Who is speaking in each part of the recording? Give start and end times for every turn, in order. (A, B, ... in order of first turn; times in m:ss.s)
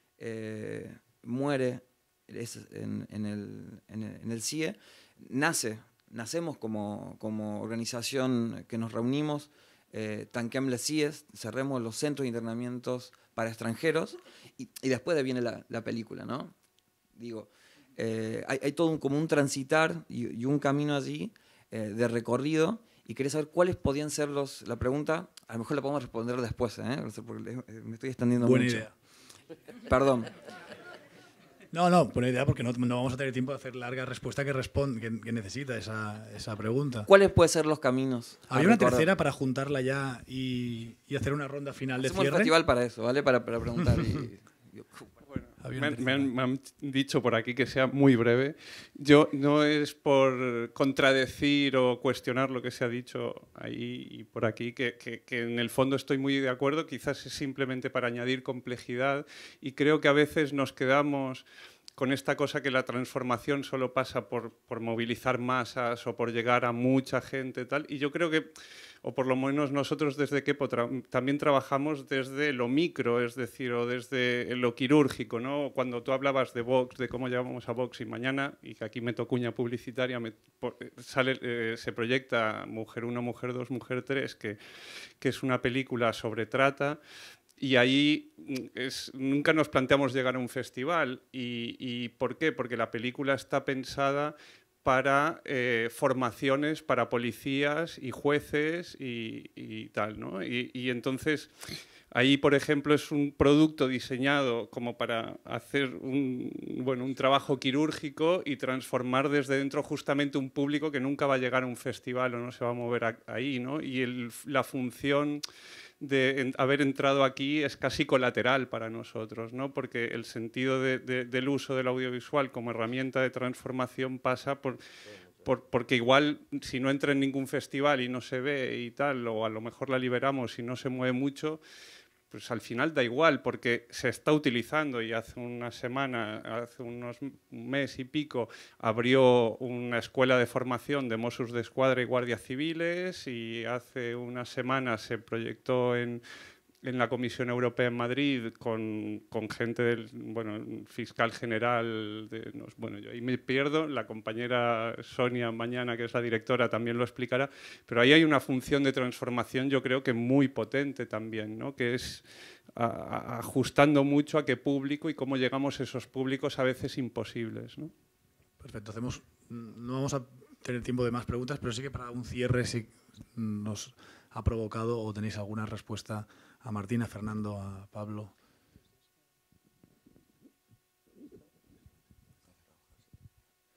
0:00.2-0:16.5 A
0:17.2-0:28.9 A
0:28.4-0:28.9 B
0:29.9-0:30.3 A
0:31.7-0:37.1 B
0:37.1-0:39.1 A
0:38.5-0:42.5 B
0:42.0-0:45.2 A
0:45.6-0:46.3 B
0:45.7-1:08.5 C
1:09.0-1:24.6 C
1:25.2-1:27.0 C
1:27.6-1:41.5 C
1:42.1-1:55.4 C
1:56.0-2:04.8 C
2:05.4-2:11.6 C
2:12.3-2:26.2 C
2:26.8-2:47.9 C
2:48.6-2:58.3 B